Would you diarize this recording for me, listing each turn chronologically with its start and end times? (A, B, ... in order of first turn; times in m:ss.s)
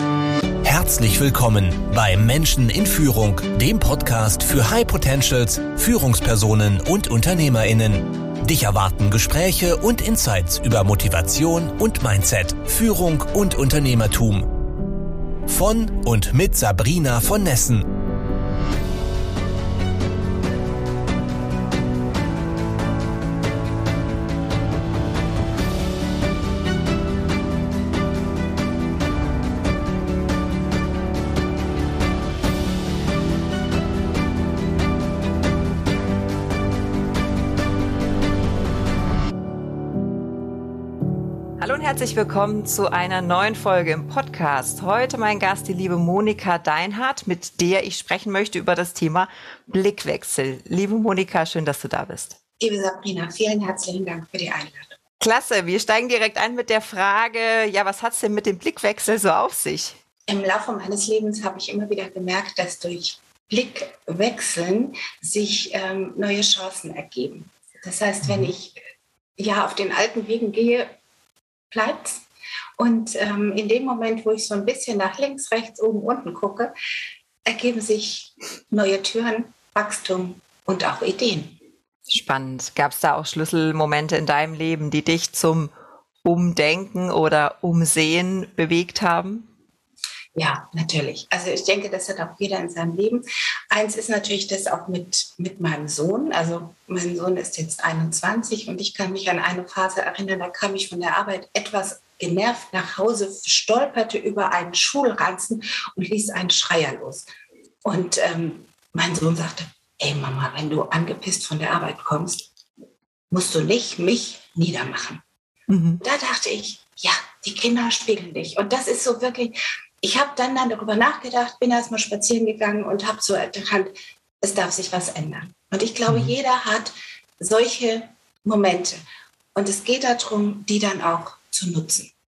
0:00.6-0:14.4 A
0:15.5-0:17.8 A
0:41.6-0:52.4 B
0:52.6-0:54.9 C
0:55.2-1:00.0 B
1:00.3-1:08.8 C
1:09.4-1:10.9 C
1:11.7-1:12.1 C
1:12.8-1:16.7 C
1:17.5-1:21.6 C
1:22.1-1:25.7 B
1:26.2-1:29.5 B
1:30.4-1:33.2 C
1:33.8-1:47.3 C
1:47.9-1:52.4 C
1:53.3-1:55.2 C
1:55.7-1:56.0 B
1:56.1-1:59.6 C
2:00.2-2:03.9 C
2:04.5-2:09.0 C
2:06.1-2:06.3 B
2:09.6-2:12.1 C